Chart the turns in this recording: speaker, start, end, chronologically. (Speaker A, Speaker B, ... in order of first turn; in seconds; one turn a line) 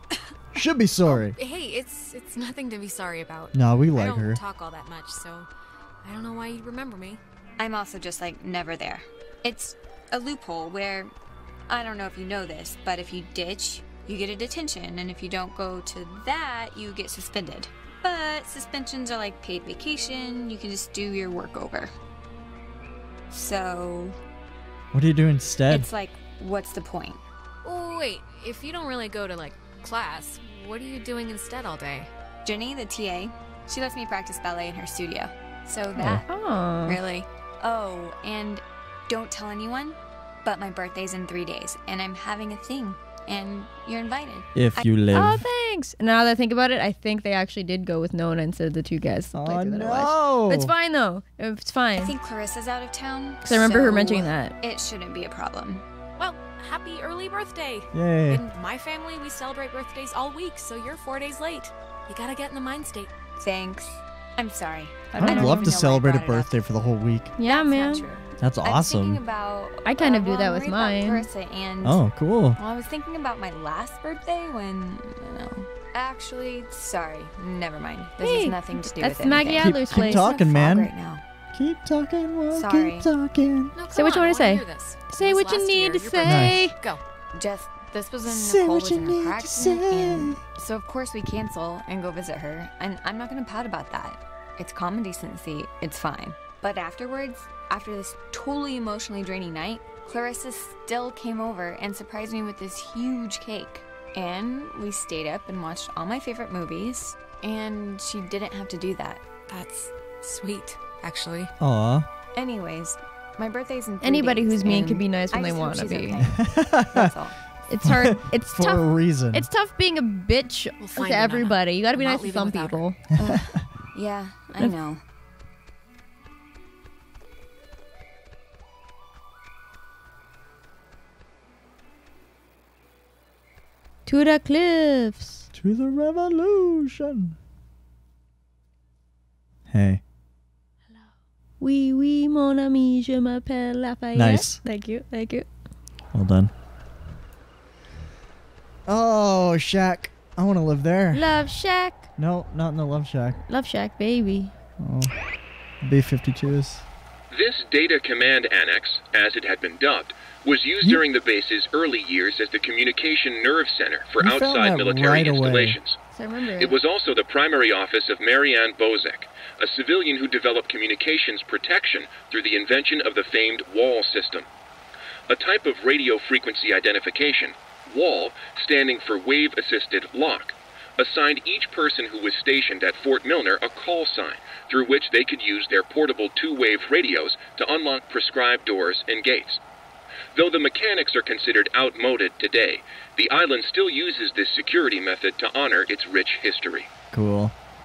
Speaker A: 0.5-1.4
Speaker B: 1.1-5.5
Speaker A: 3.5-4.4
Speaker B: 6.0-7.2
Speaker C: 7.6-11.1
Speaker C: 11.7-21.9
Speaker C: 23.3-24.2
Speaker A: 24.9-25.9
Speaker C: 25.7-27.2
Speaker B: 27.6-32.1
Speaker C: 32.4-36.3
Speaker A: 35.9-36.2
Speaker D: 36.3-37.0
Speaker C: 36.8-45.3
Speaker A: 44.5-45.4
Speaker D: 45.1-52.1
Speaker A: 49.3-50.7
Speaker C: 52.0-55.8
Speaker D: 53.5-54.5
Speaker B: 56.2-63.1
Speaker A: 57.9-58.4
Speaker C: 63.4-66.5
Speaker D: 65.1-65.7
Speaker A: 65.2-67.3
Speaker D: 67.4-68.0
Speaker C: 67.4-72.0
Speaker A: 68.4-69.2
Speaker D: 69.8-71.2
Speaker A: 71.8-72.6
Speaker C: 72.5-81.2
Speaker D: 78.2-80.3
Speaker A: 79.6-80.9
Speaker A: 81.5-83.7
Speaker C: 82.5-83.1
Speaker B: 83.7-87.0
Speaker D: 83.9-86.8
Speaker A: 86.2-86.6
Speaker C: 87.3-109.9
Speaker A: 88.2-90.4
Speaker B: 109.6-111.5
Speaker A: 111.6-112.1
Speaker C: 112.3-117.3
Speaker D: 114.0-116.2
Speaker A: 116.4-117.1
Speaker D: 117.7-123.0
Speaker A: 117.8-119.5
Speaker B: 120.8-122.8
Speaker C: 123.2-125.0
Speaker A: 123.2-123.6
Speaker D: 134.1-135.5
Speaker A: 135.5-137.3
Speaker A: 139.7-140.0
Speaker D: 141.6-145.5
Speaker A: 144.1-144.6
Speaker A: 146.1-146.5
Speaker A: 148.9-151.2
Speaker D: 151.1-152.1
Speaker A: 152.2-153.4
Speaker D: 153.5-154.5
Speaker A: 154.8-155.1
Speaker A: 155.8-156.8
Speaker E: 157.3-166.0
Speaker A: 164.2-165.8
Speaker D: 166.1-166.8
Speaker E: 166.6-174.5
Speaker E: 175.3-189.6
Speaker E: 190.3-196.9
Speaker A: 197.1-197.5